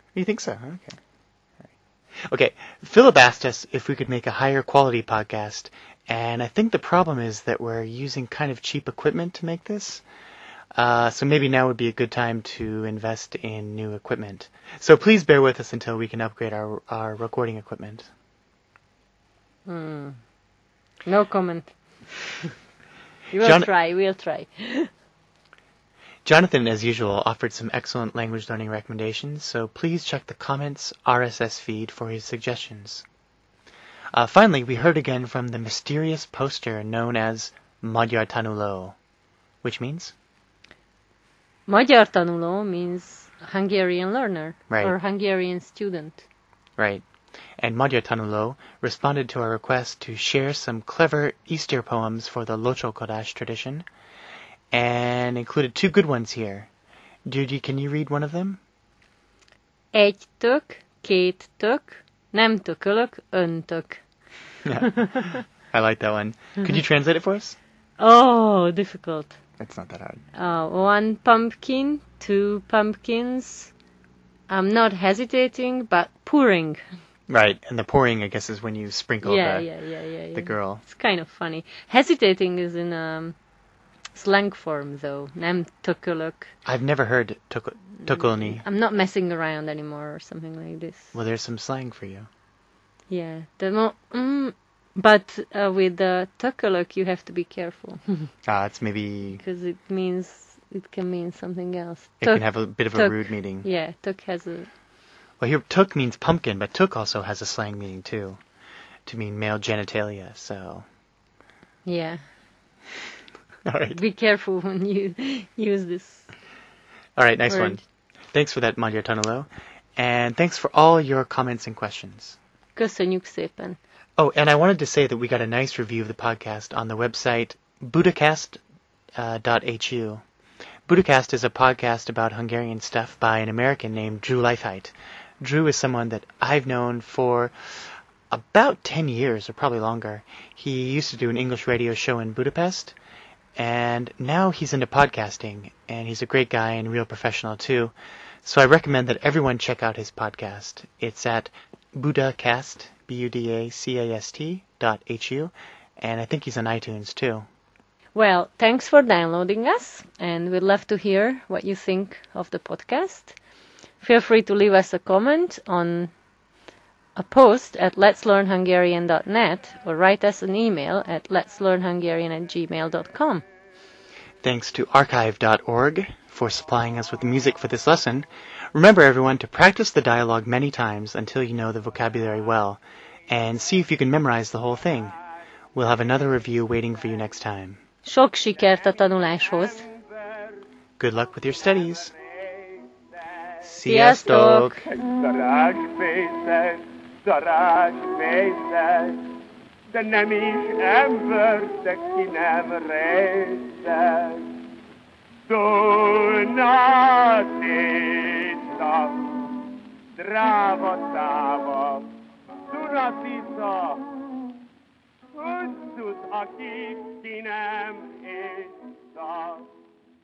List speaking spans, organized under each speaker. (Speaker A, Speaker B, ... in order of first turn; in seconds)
Speaker A: 0.1-1.0, 2.2-10.0, 10.7-18.1, 23.4-23.7, 26.2-33.0, 34.1-38.9, 39.6-40.1, 44.7-45.0, 46.8-47.0, 47.6-53.8, 54.7-56.7, 57.2-58.6, 64.6-67.6, 69.6-70.2, 77.3-79.7, 80.3-80.8, 86.7-88.6, 91.1-92.3, 98.4-99.4, 102.2-103.7, 105.4-108.4, 109.0-110.8, 113.6-114.0, 117.2-117.8, 118.3-122.4, 124.2-128.6, 129.2-130.2, 130.9-142.9, 143.6-147.9, 148.4-157.4, 174.4-185.2, 185.7-187.8, 191.0-192.1, 193.6-194.8
Speaker B: 19.7-20.2, 21.1-21.7, 23.3-24.9, 41.7-46.2, 59.9-64.0, 64.8-65.4, 68.0-69.4, 70.3-73.7, 74.5-76.8, 79.2-83.3, 84.1-86.5, 88.0-91.1, 93.1-98.3, 99.4-104.7, 111.8-112.2, 113.9-116.3, 117.5-117.8, 122.8-123.8, 158.1-163.3, 164.0-166.1, 167.2-173.4, 188.0-189.8, 193.8-194.8
Speaker C: 189.4-190.6, 191.7-193.4, 194.9-199.2, 199.9-204.5, 205.5-209.6, 210.2-212.1, 212.7-214.1, 215.3-219.7